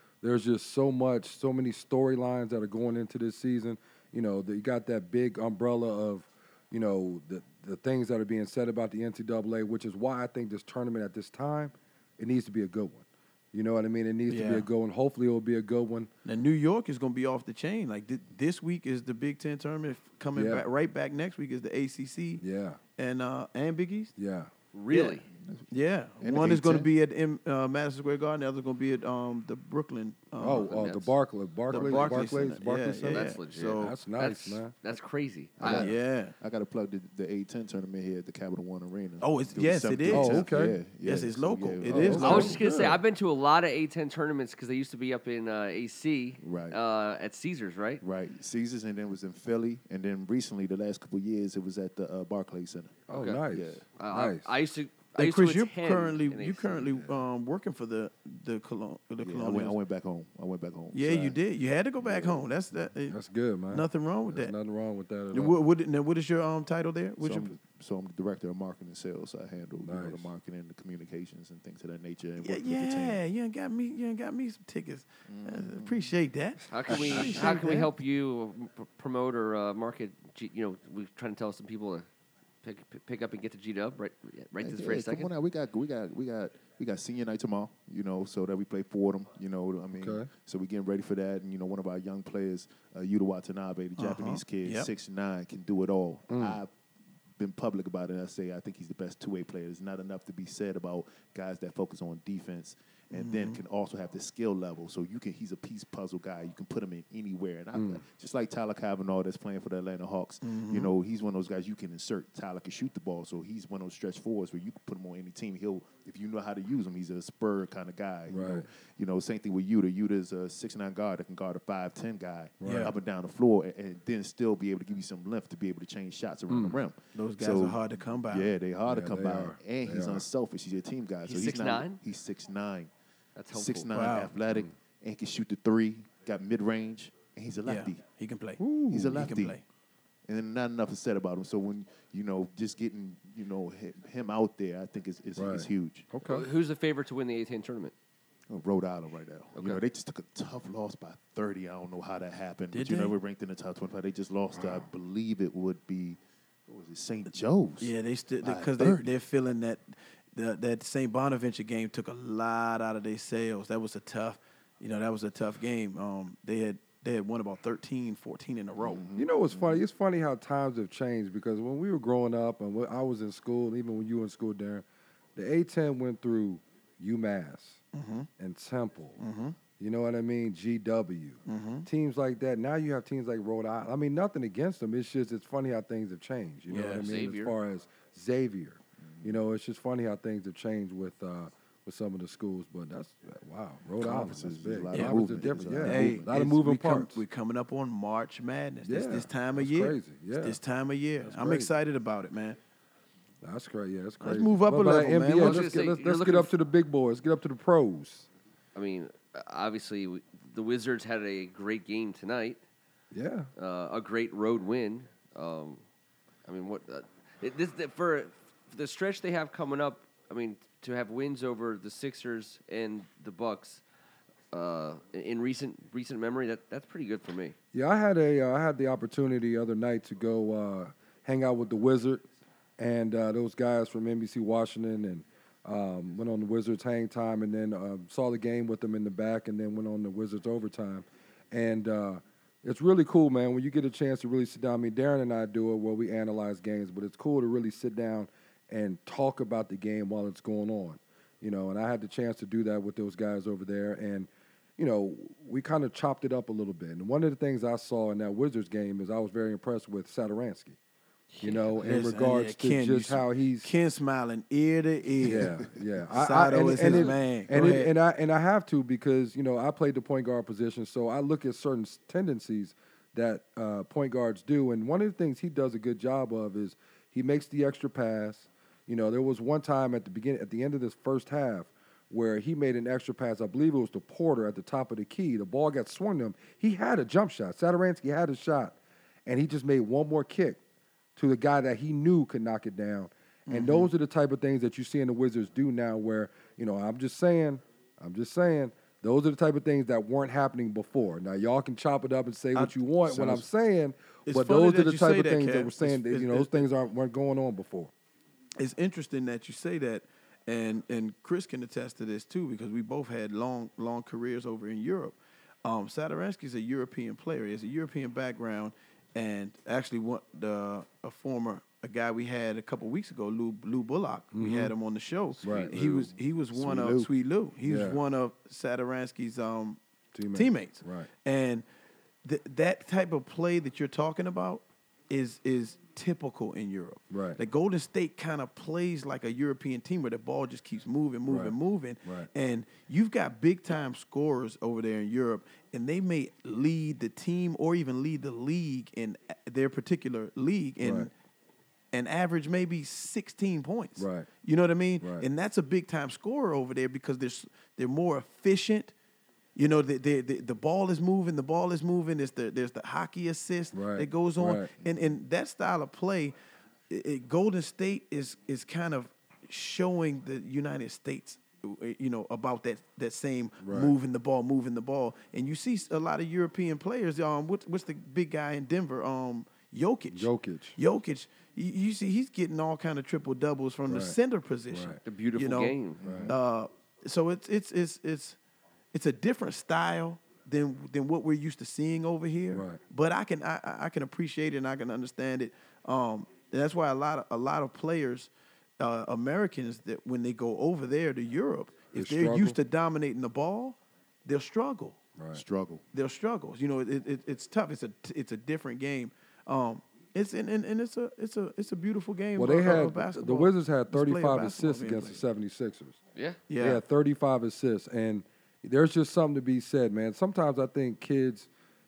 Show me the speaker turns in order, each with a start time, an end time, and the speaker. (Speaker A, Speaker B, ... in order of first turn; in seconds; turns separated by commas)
Speaker A: 0.2-16.1, Speaker B: 14.3-14.7, Speaker B: 16.3-22.4, Speaker A: 20.3-20.6, Speaker A: 22.4-22.8, Speaker B: 23.0-24.1, Speaker A: 24.2-24.5, Speaker C: 24.7-25.3, Speaker B: 24.9-25.2, Speaker D: 25.3-25.7, Speaker B: 25.7-31.1, Speaker D: 26.2-26.9, Speaker A: 30.4-34.7, Speaker B: 31.7-34.0, Speaker C: 31.7-32.1, Speaker C: 33.1-35.9, Speaker D: 35.6-42.9, Speaker B: 35.8-36.3, Speaker B: 39.2-40.5, Speaker A: 40.1-40.8, Speaker B: 41.0-42.6, Speaker A: 41.9-43.0, Speaker C: 42.2-48.0, Speaker D: 46.4-46.8, Speaker D: 48.0-53.8, Speaker A: 53.1-54.5, Speaker C: 53.2-53.4, Speaker C: 54.0-57.1, Speaker B: 55.2-59.8, Speaker D: 59.2-61.4, Speaker B: 60.9-63.2, Speaker D: 62.0-62.5, Speaker A: 63.1-65.6, Speaker B: 63.7-64.5, Speaker B: 65.3-67.5, Speaker D: 67.2-73.2, Speaker A: 69.8-70.3, Speaker B: 72.4-77.9, Speaker D: 75.3-76.1, Speaker C: 76.7-82.1, Speaker A: 76.9-77.8, Speaker C: 82.6-85.3, Speaker D: 84.6-96.7, Speaker A: 90.0-90.3, Speaker B: 94.0-94.9, Speaker A: 96.3-96.6, Speaker D: 97.4-132.9, Speaker B: 103.1-103.6, Speaker A: 107.7-108.0, Speaker B: 110.4-110.9, Speaker A: 118.3-118.7, Speaker A: 122.6-122.9, Speaker B: 122.6-122.9, Speaker A: 126.5-126.8, Speaker B: 127.2-128.5, Speaker A: 128.8-130.2, Speaker C: 131.3-132.0, Speaker C: 133.4-134.1, Speaker D: 133.5-138.0, Speaker B: 133.9-134.3, Speaker B: 137.7-139.6, Speaker A: 138.6-139.3, Speaker D: 138.9-139.6, Speaker D: 140.3-146.1, Speaker A: 145.4-146.5, Speaker C: 146.2-147.9, Speaker D: 148.5-159.1, Speaker C: 149.6-149.8, Speaker B: 152.7-153.2, Speaker A: 154.6-154.8, Speaker B: 157.8-169.0, Speaker D: 168.8-169.8, Speaker A: 169.2-177.8, Speaker B: 177.9-178.3, Speaker A: 178.4-179.2, Speaker B: 179.2-179.6, Speaker A: 179.8-197.2, Speaker B: 181.5-181.9, Speaker B: 186.7-187.1, Speaker C: 186.8-187.5, Speaker D: 189.0-189.4, Speaker D: 194.0-196.3, Speaker B: 194.9-195.2, Speaker B: 195.8-202.6, Speaker A: 198.8-200.6, Speaker A: 201.2-201.7, Speaker A: 203.4-208.3, Speaker B: 204.2-205.7, Speaker C: 205.3-206.5, Speaker C: 208.8-212.6, Speaker A: 213.1-213.5, Speaker C: 213.6-215.8, Speaker C: 216.5-223.8, Speaker C: 224.5-227.6, Speaker A: 227.7-232.2, Speaker A: 232.8-260.8, Speaker A: 261.4-263.7, Speaker B: 261.8-265.5, Speaker D: 265.2-265.6, Speaker A: 265.2-290.6, Speaker B: 266.1-267.9, Speaker D: 266.8-267.1, Speaker A: 291.2-307.9, Speaker B: 293.5-293.9, Speaker B: 302.6-303.5, Speaker B: 304.3-306.6, Speaker B: 308.6-329.8, Speaker A: 324.3-324.7, Speaker A: 325.4-325.7, Speaker D: 325.4-327.1, Speaker A: 327.7-328.0, Speaker A: 330.1-331.1, Speaker B: 330.3-331.6, Speaker B: 332.2-351.1, Speaker A: 337.1-337.4, Speaker A: 341.3-342.3, Speaker A: 350.8-351.1, Speaker B: 351.9-358.9, Speaker A: 354.0-354.3, Speaker A: 355.0-355.3, Speaker B: 359.6-366.4, Speaker A: 363.7-364.7, Speaker D: 364.8-365.1, Speaker B: 366.9-385.8, Speaker A: 373.6-374.0, Speaker A: 380.1-380.8, Speaker A: 383.9-384.2, Speaker A: 384.7-385.0, Speaker C: 385.0-386.0, Speaker D: 386.0-386.4, Speaker A: 386.0-386.4, Speaker B: 386.3-388.4, Speaker B: 388.9-405.0, Speaker A: 392.5-392.8, Speaker A: 401.9-402.6, Speaker A: 405.2-405.4, Speaker D: 405.3-405.8, Speaker B: 405.9-415.2, Speaker A: 412.4-416.0, Speaker B: 416.5-416.8, Speaker A: 416.6-421.5